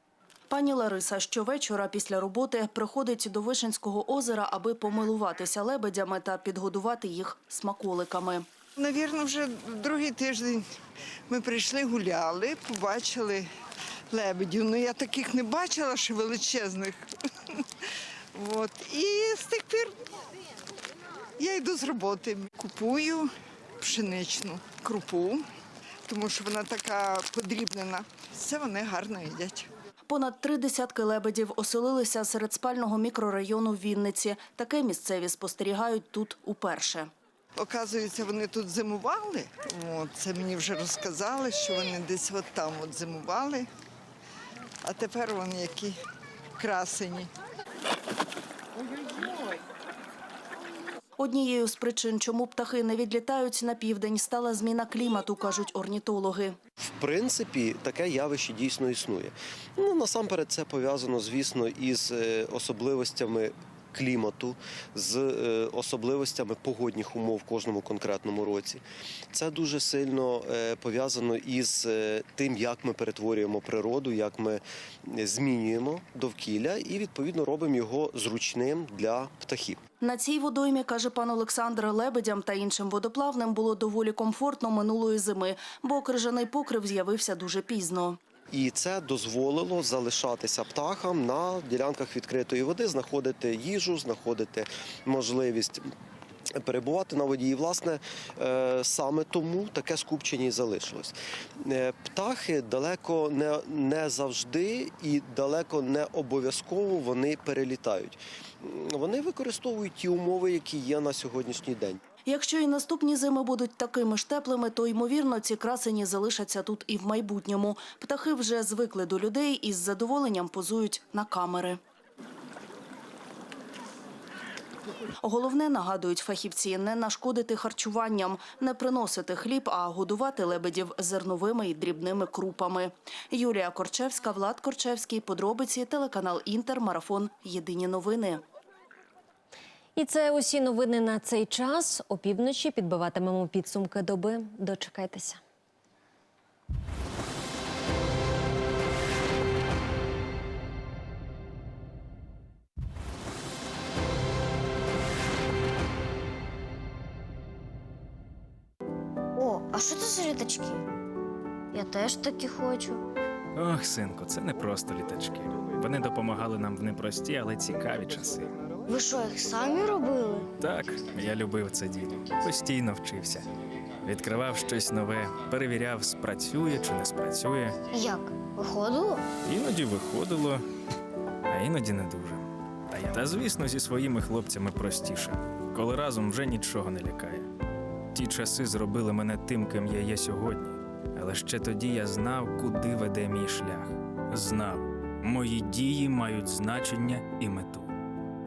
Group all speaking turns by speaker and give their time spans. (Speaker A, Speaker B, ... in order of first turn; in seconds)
Speaker A: 0.5-8.4, 30.1-37.1, 51.2-56.6, 80.0-88.2, 112.3-121.8, 125.2-138.4
Speaker B: 8.8-10.7, 11.3-13.5, 14.1-17.0, 18.3-19.9, 21.4-25.4, 26.1-29.7, 37.5-43.7, 44.8-46.0, 46.6-47.3
Speaker C: 57.0-79.8, 88.5-95.9, 96.5-112.0
Speaker D: 139.9-145.4
Speaker E: 159.3-160.8, 161.7-163.0, 168.9-170.5, 177.9-179.2
Speaker F: 163.5-168.5, 170.6-173.5, 174.0-177.8, 179.4-180.6, 181.5-187.5, 188.1-197.9